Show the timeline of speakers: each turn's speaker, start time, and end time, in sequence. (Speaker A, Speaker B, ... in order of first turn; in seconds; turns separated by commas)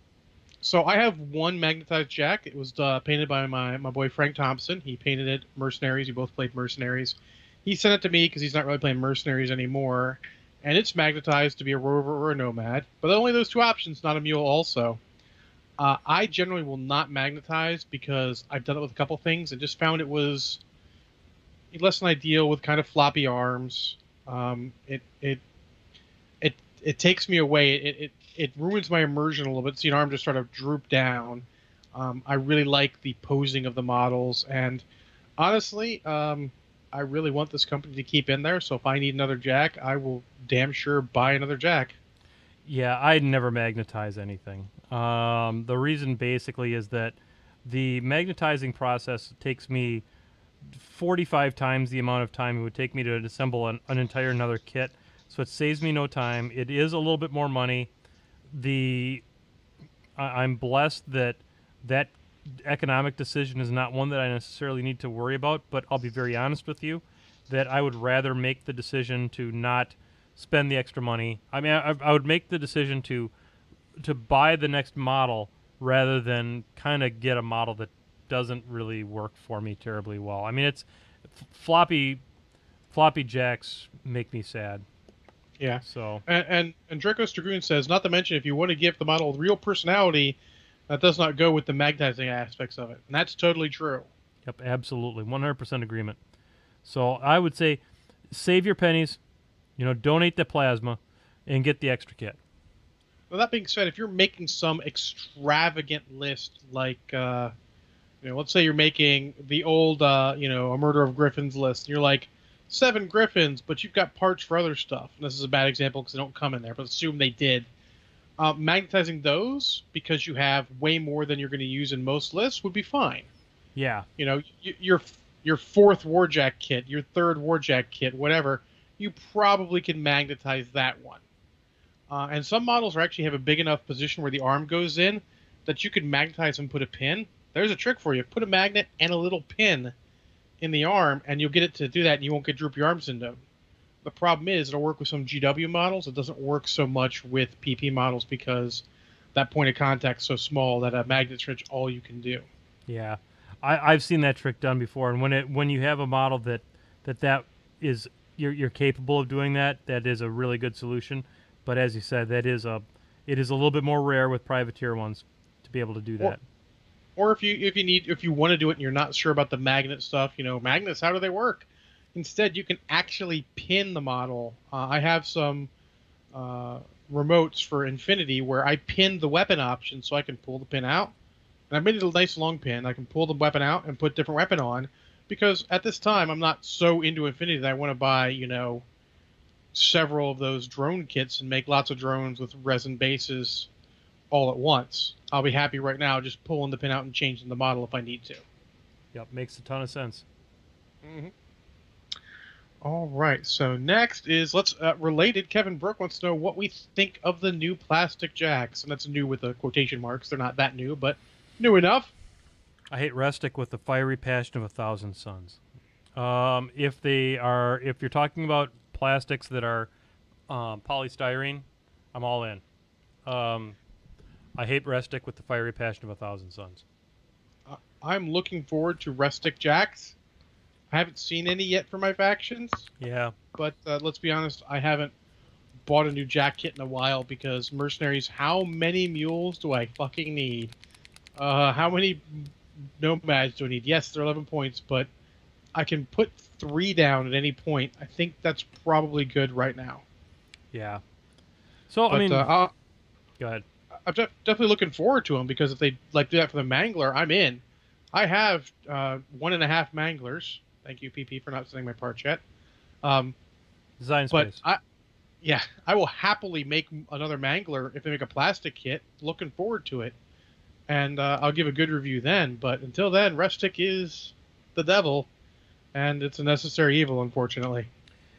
Speaker A: 0.6-15.0, Speaker A: 15.8-20.6, Speaker A: 21.7-25.4, Speaker A: 26.4-34.8, Speaker A: 35.4-41.9, Speaker B: 42.6-50.0, Speaker B: 50.7-57.9, Speaker B: 58.5-59.2, Speaker B: 60.2-73.3, Speaker B: 74.0-82.2, Speaker B: 82.9-84.8, Speaker A: 85.6-90.4, Speaker B: 85.8-86.2, Speaker A: 90.9-94.1, Speaker B: 94.5-96.2, Speaker B: 96.8-99.2, Speaker B: 99.8-102.4, Speaker A: 103.3-107.5, Speaker A: 108.2-117.7, Speaker A: 118.4-123.3, Speaker B: 123.8-124.1, Speaker A: 124.2-131.2, Speaker A: 132.1-139.9, Speaker A: 140.6-143.4, Speaker A: 144.0-152.5, Speaker B: 152.9-166.4, Speaker A: 167.2-175.7, Speaker A: 176.3-181.1, Speaker A: 181.7-188.8, Speaker A: 189.7-193.7, Speaker A: 194.3-198.4, Speaker B: 199.1-200.2, Speaker A: 201.0-201.3, Speaker A: 202.8-212.1, Speaker B: 212.9-215.6, Speaker B: 216.2-219.9, Speaker B: 220.5-222.6, Speaker B: 223.2-223.8, Speaker B: 224.6-226.8, Speaker A: 227.7-230.1, Speaker A: 230.9-232.9, Speaker B: 233.0-233.3, Speaker A: 233.5-235.1, Speaker A: 235.8-240.7, Speaker A: 241.4-245.1, Speaker A: 245.7-250.0, Speaker B: 250.7-251.0, Speaker B: 251.9-252.5, Speaker A: 252.1-252.7, Speaker B: 253.4-253.6, Speaker A: 254.0-257.6, Speaker A: 258.1-262.4, Speaker A: 263.0-263.3, Speaker B: 264.0-264.6, Speaker A: 264.3-264.8, Speaker A: 265.4-270.1, Speaker A: 270.9-275.3, Speaker A: 275.9-277.9